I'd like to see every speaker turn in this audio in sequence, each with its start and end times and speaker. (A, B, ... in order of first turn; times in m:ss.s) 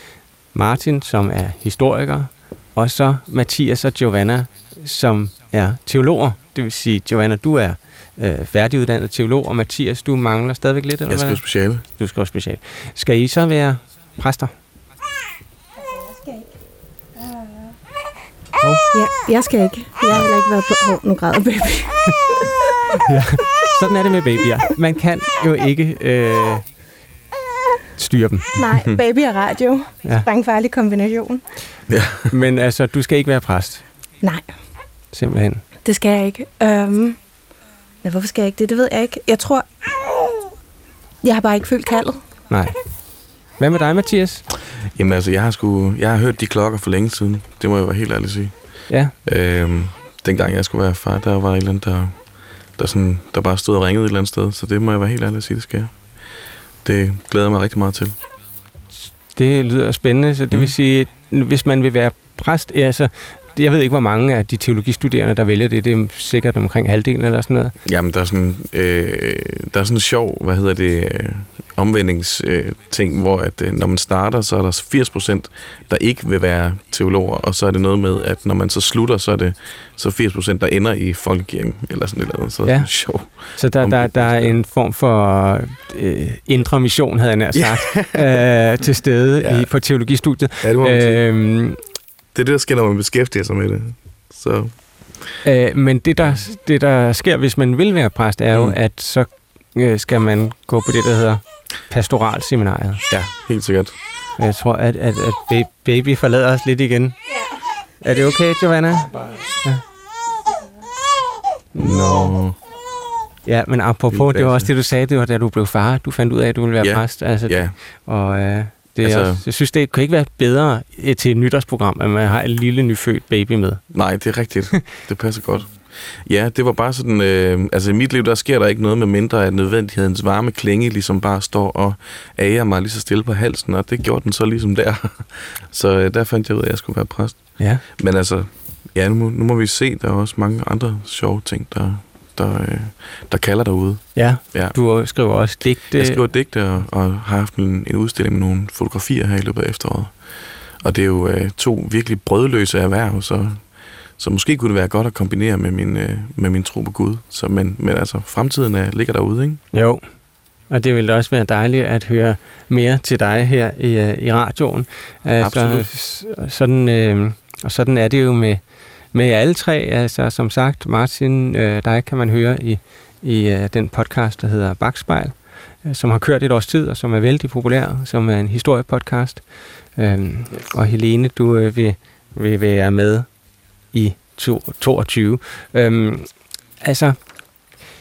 0:00.5-0:14.5 A
0:11.1-0:11.8 B
0:18.9-0:22.4 C
0:23.1-0:26.6 A
0:28.0-0:28.5 A
0:28.6-0:31.4 C
0:31.9-0:32.3 B
0:32.3-0:33.8 A
0:34.2-0:34.5 C
0:35.1-0:35.6 A
0:35.8-0:37.2 C
0:38.0-0:39.9 C
0:41.2-0:42.2 C
0:42.5-0:42.8 A
0:43.6-0:44.4 A
0:44.9-0:58.2 B
0:48.9-0:49.1 A
0:59.3-1:07.7 A
1:07.8-1:24.6 B
1:22.6-1:31.8 A
1:27.5-1:28.4 B
1:29.4-1:30.0 B
1:30.6-1:31.2 B
1:32.3-1:35.3 B
1:35.4-1:43.0 A
1:38.5-1:38.8 B
1:43.1-1:44.0 B
1:44.4-1:47.2 A
1:48.0-1:49.8 A
1:51.7-1:52.3 A
1:51.8-1:52.6 B
1:53.4-2:03.9 A
1:54.1-1:54.7 B
1:56.8-1:57.8 B
1:59.0-1:59.4 B
2:03.9-2:24.8 B
2:17.6-2:17.8 A
2:24.1-2:26.2 A
2:25.3-2:39.6 B
2:39.7-2:40.0 A
2:40.7-3:03.3 A
2:45.4-2:45.9 B
3:03.9-3:06.3 A
3:06.8-3:07.4 A